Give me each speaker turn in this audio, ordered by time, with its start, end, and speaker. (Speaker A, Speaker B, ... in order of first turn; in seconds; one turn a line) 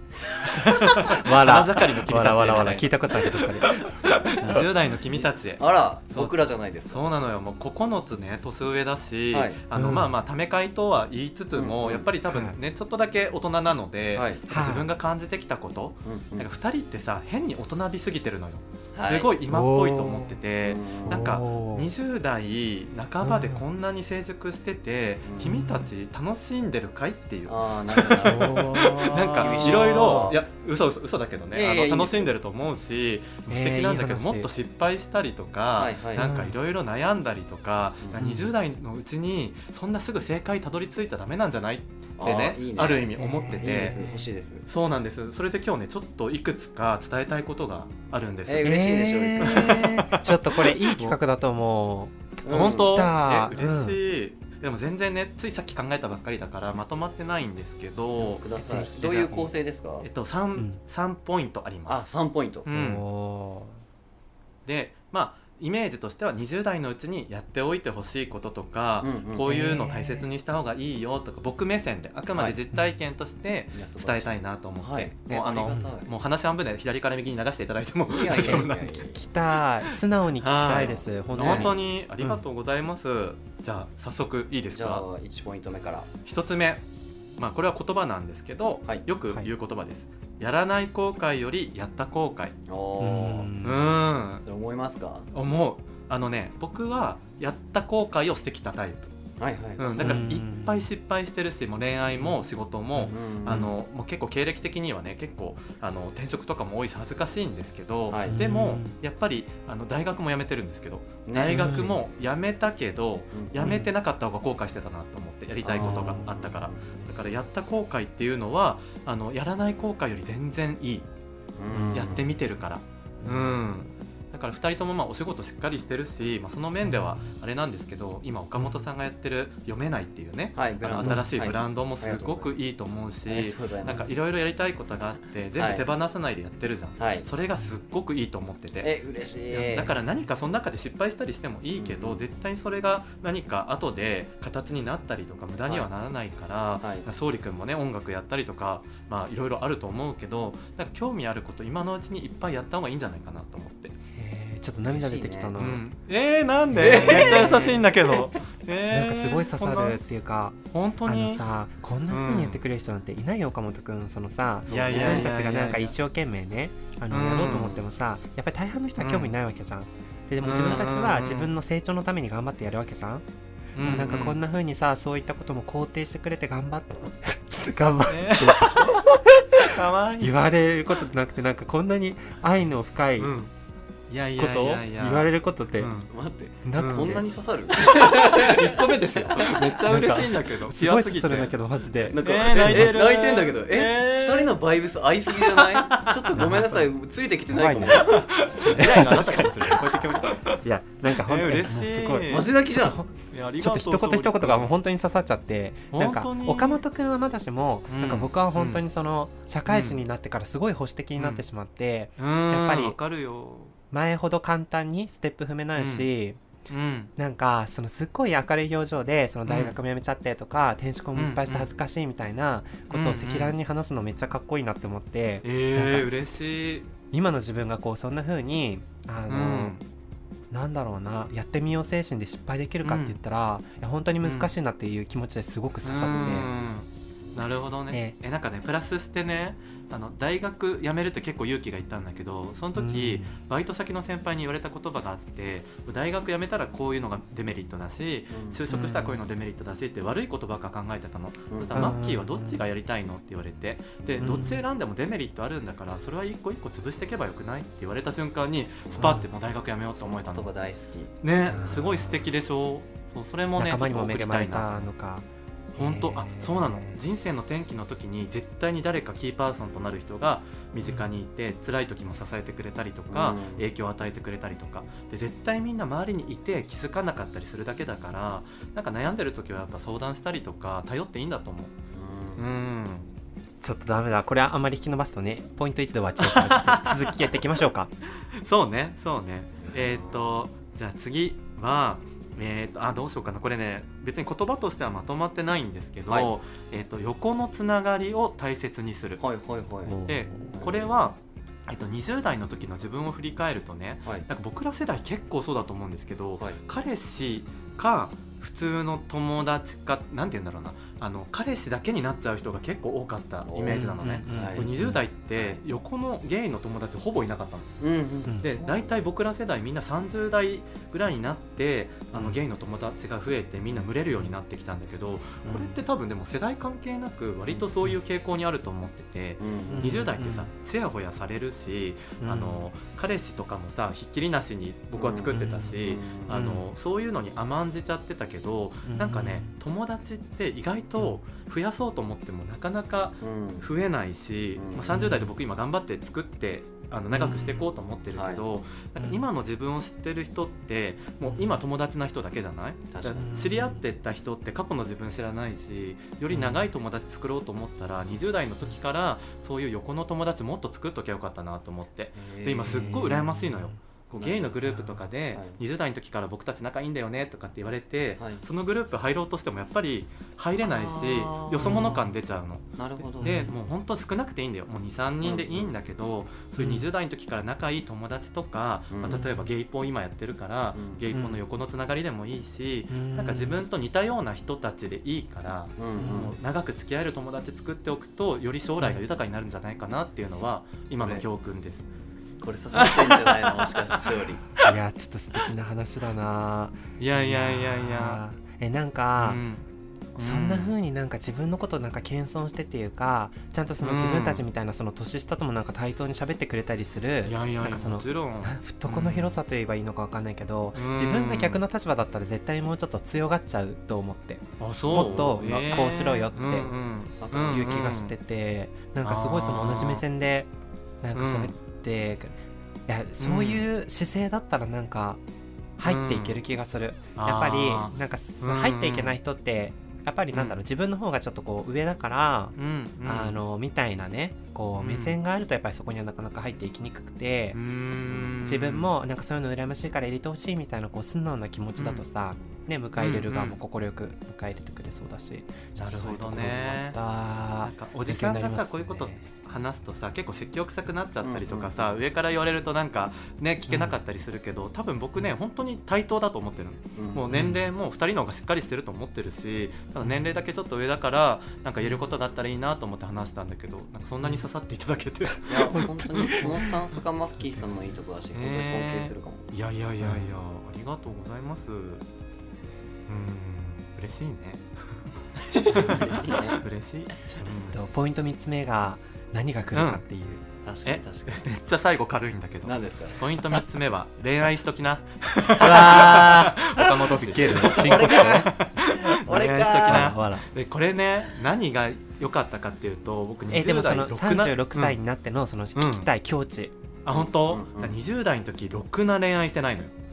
Speaker A: 0.5-4.7
Speaker B: 0.6-44.0
Speaker C: 5.1-7.1
Speaker C: 9.3-9.6
Speaker A: 9.7-10.2
Speaker C: 11.5-12.1
Speaker A: 12.3-12.6
Speaker C: 14.1-14.4
Speaker A: 14.5-14.9
Speaker C: 16.1-16.5
Speaker C: 18.9-19.3
Speaker A: 19.5-20.4
Speaker C: 20.6-21.3
Speaker A: 21.1-21.9
Speaker A: 23.2-23.6
Speaker A: 25.4-25.9
Speaker C: 27.5-30.4
Speaker A: 28.2-30.3
Speaker C: 31.5-32.3
Speaker A: 33.5-34.5
Speaker C: 35.8-36.3
Speaker A: 36.2-36.6
Speaker C: 38.0-38.3
Speaker A: 38.2-38.5
Speaker C: 42.2-44.6
Speaker A: 43.1-44.3
Speaker B: 44.7-48.7
Speaker C: 48.5-49.8
Speaker A: 48.6-54.0
Speaker B: 49.4-51.2
Speaker C: 52.4-53.0
Speaker B: 52.5-58.5
Speaker C: 58.2-60.1
Speaker A: 58.6-59.5
Speaker B: 60.0-62.0
Speaker C: 61.9-62.7
Speaker B: 62.7-63.0
Speaker A: 62.7-63.8
Speaker B: 64.7-78.8
Speaker C: 69.0-69.6
Speaker A: 69.5-70.3
Speaker C: 73.7-76.1
Speaker A: 75.7-75.9
Speaker C: 78.1-79.2
Speaker A: 78.3-82.4
Speaker B: 80.4-85.0
Speaker C: 80.7-81.8
Speaker C: 84.7-86.1
Speaker B: 86.2-86.8
Speaker B: 87.4-92.6
Speaker C: 92.7-93.5
Speaker A: 93.0-93.9
Speaker B: 93.6-94.4
Speaker C: 94.4-95.3
Speaker B: 95.3-99.1
Speaker C: 99.4-100.3
Speaker B: 99.8-121.1
Speaker A: 100.0-100.9
Speaker A: 103.0-103.7
Speaker C: 103.0-103.7
Speaker C: 108.1-108.4
Speaker A: 108.3-109.0
Speaker C: 111.3-112.1
Speaker A: 111.5-112.0
Speaker C: 113.3-113.8
Speaker A: 113.6-113.9
Speaker C: 115.6-117.0
Speaker A: 115.8-116.5
Speaker C: 121.6-122.3
Speaker A: 121.7-122.2
Speaker B: 121.9-138.9
Speaker A: 123.2-123.6
Speaker A: 126.8-127.3
Speaker A: 128.6-128.9
Speaker C: 130.6-132.5
Speaker A: 131.0-131.3
Speaker C: 133.3-134.1
Speaker C: 135.6-135.9
Speaker C: 137.0-137.3
Speaker C: 138.8-139.9
Speaker B: 139.5-153.9
Speaker C: 141.8-142.2
Speaker A: 154.2-155.8
Speaker C: 154.9-155.6
Speaker B: 155.6-160.0
Speaker A: 156.7-158.2
Speaker C: 156.8-157.6
Speaker A: 158.9-173.2
Speaker B: 160.7-161.4
Speaker B: 162.1-162.6
Speaker B: 164.7-166.0
Speaker C: 164.9-165.3
Speaker B: 167.1-167.8
Speaker B: 169.0-169.3
Speaker B: 170.4-171.5
Speaker B: 173.8-174.4
Speaker A: 173.8-183.3
Speaker B: 178.1-180.4
Speaker B: 183.2-183.5
Speaker B: 184.1-186.1
Speaker A: 184.4-185.9
Speaker C: 186.1-189.5
Speaker A: 186.7-187.2
Speaker B: 186.8-194.6
Speaker A: 189.8-193.0
Speaker C: 192.1-198.2
Speaker B: 195.4-196.6
Speaker A: 196.3-196.9
Speaker A: 197.5-213.0
Speaker B: 197.9-202.5
Speaker C: 202.3-203.0
Speaker B: 203.3-204.7
Speaker B: 205.9-206.8
Speaker B: 207.9-208.8
Speaker B: 209.7-210.0
Speaker B: 211.2-211.4
Speaker B: 212.2-213.8
Speaker A: 213.9-216.4
Speaker B: 215.8-216.1
Speaker B: 216.7-217.1
Speaker A: 217.2-226.1
Speaker B: 219.5-219.8
Speaker B: 221.2-221.7
Speaker B: 222.9-223.6
Speaker B: 225.4-226.9
Speaker A: 227.1-229.8
Speaker B: 229.3-229.8
Speaker A: 230.5-236.5
Speaker B: 232.8-233.2
Speaker B: 234.2-234.5
Speaker B: 235.8-260.5
Speaker A: 237.9-238.2
Speaker A: 242.8-243.3
Speaker C: 248.3-248.6
Speaker A: 248.7-249.2
Speaker C: 251.5-252.0
Speaker A: 251.7-252.6
Speaker C: 254.0-254.5
Speaker A: 254.2-254.6
Speaker C: 258.8-259.2
Speaker A: 259.0-259.3
Speaker C: 259.9-261.8
Speaker B: 261.2-264.8
Speaker A: 261.5-262.3
Speaker A: 263.6-267.0
Speaker B: 265.8-281.7
Speaker A: 270.9-271.1
Speaker C: 273.1-273.7
Speaker C: 281.9-282.5
Speaker B: 282.4-283.1
Speaker A: 283.6-287.9
Speaker B: 286.2-287.4
Speaker B: 288.4-299.2
Speaker C: 289.6-290.3
Speaker C: 299.2-300.9
Speaker A: 299.9-300.6
Speaker B: 300.1-317.8
Speaker C: 313.4-314.7
Speaker A: 313.7-315.0
Speaker C: 315.4-315.6
Speaker C: 317.8-319.0
Speaker B: 318.4-391.9
Speaker A: 322.1-322.4
Speaker A: 325.4-325.8
Speaker C: 329.4-330.1
Speaker A: 329.7-330.5
Speaker A: 332.2-332.6
Speaker C: 335.0-336.3
Speaker A: 335.3-336.7
Speaker A: 338.9-339.5
Speaker C: 343.2-343.7
Speaker C: 344.6-345.0
Speaker A: 344.9-345.3
Speaker A: 347.1-347.7
Speaker C: 348.1-348.4
Speaker A: 349.0-349.3
Speaker A: 351.3-351.6
Speaker C: 352.9-353.3
Speaker A: 353.2-353.8
Speaker A: 356.3-356.7
Speaker C: 362.1-363.1
Speaker A: 362.7-363.8
Speaker C: 364.2-364.8
Speaker A: 364.7-365.0
Speaker C: 365.3-365.6
Speaker C: 368.2-368.4
Speaker C: 370.6-372.1
Speaker A: 371.6-372.1
Speaker C: 372.8-373.3
Speaker A: 373.2-373.5
Speaker C: 375.2-375.7
Speaker A: 376.6-376.9
Speaker C: 378.9-379.3
Speaker A: 379.1-379.5
Speaker C: 380.8-381.0
Speaker A: 381.1-381.4
Speaker A: 382.9-383.6
Speaker C: 385.8-386.3
Speaker A: 386.0-386.3
Speaker C: 391.0-391.2
Speaker C: 392.4-394.4
Speaker B: 392.7-394.0
Speaker A: 394.6-399.4
Speaker B: 397.0-398.2
Speaker B: 399.2-400.8
Speaker A: 400.2-416.7
Speaker B: 403.8-404.4
Speaker B: 407.2-409.4
Speaker B: 410.8-411.6
Speaker B: 414.6-418.1
Speaker C: 417.2-417.8
Speaker A: 417.4-420.5
Speaker B: 419.0-420.0
Speaker A: 421.0-425.2
Speaker B: 421.1-421.5
Speaker B: 423.2-423.7
Speaker A: 425.8-437.6
Speaker B: 425.9-426.4
Speaker B: 427.2-429.2
Speaker B: 430.3-430.6
Speaker B: 432.6-433.4
Speaker B: 434.8-435.2
Speaker B: 437.5-438.9
Speaker A: 438.2-449.3
Speaker B: 441.8-442.1
Speaker B: 443.0-443.6
Speaker B: 445.8-447.0
Speaker B: 447.6-466.5
Speaker C: 451.2-452.0
Speaker A: 453.7-454.0
Speaker C: 456.9-457.3
Speaker A: 457.3-457.7
Speaker A: 460.0-460.4
Speaker C: 465.5-469.5
Speaker A: 465.7-466.7
Speaker B: 468.3-472.0
Speaker A: 470.0-470.3
Speaker B: 473.1-474.6
Speaker C: 475.5-476.6
Speaker B: 475.7-477.8
Speaker A: 475.8-476.1
Speaker A: 477.3-480.4
Speaker B: 479.7-480.0
Speaker C: 480.6-481.5
Speaker B: 480.9-495.0
Speaker C: 482.6-483.4
Speaker A: 485.6-488.5
Speaker C: 487.5-490.1
Speaker A: 489.3-490.5
Speaker A: 493.5-496.7
Speaker B: 495.8-496.1
Speaker B: 497.1-499.9
Speaker C: 497.1-498.0